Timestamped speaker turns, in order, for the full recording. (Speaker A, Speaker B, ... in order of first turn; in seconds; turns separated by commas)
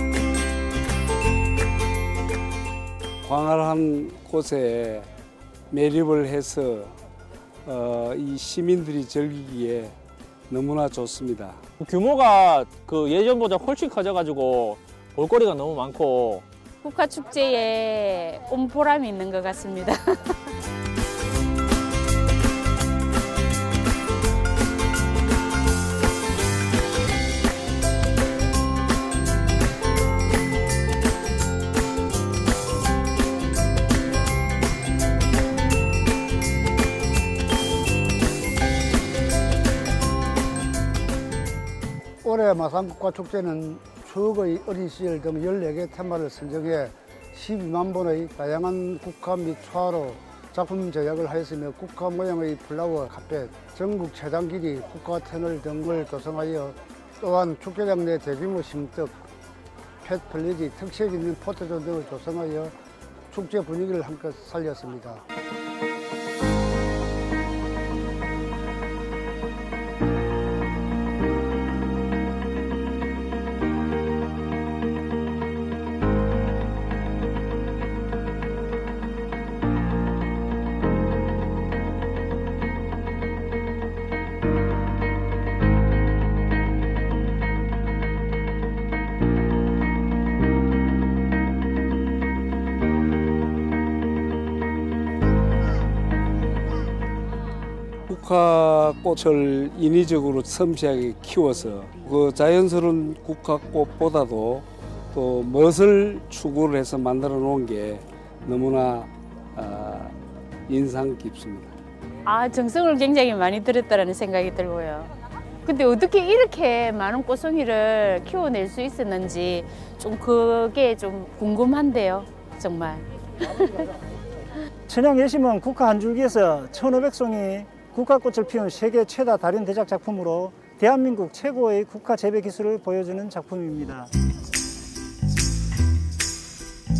Speaker A: 3.2-5.1, Speaker A: 5.7-6.9, Speaker A: 7.7-9.9, Speaker A: 10.5-11.6, Speaker B: 11.8-16.4, Speaker C: 16.8-20.4, Speaker D: 42.2-59.2, Speaker D: 60.0-62.7, Speaker D: 63.3-65.2, Speaker A: 98.1-110.1, Speaker A: 110.7-111.7, Speaker C: 112.2-115.1, Speaker C: 115.6-123.8, Speaker E: 124.9-134.1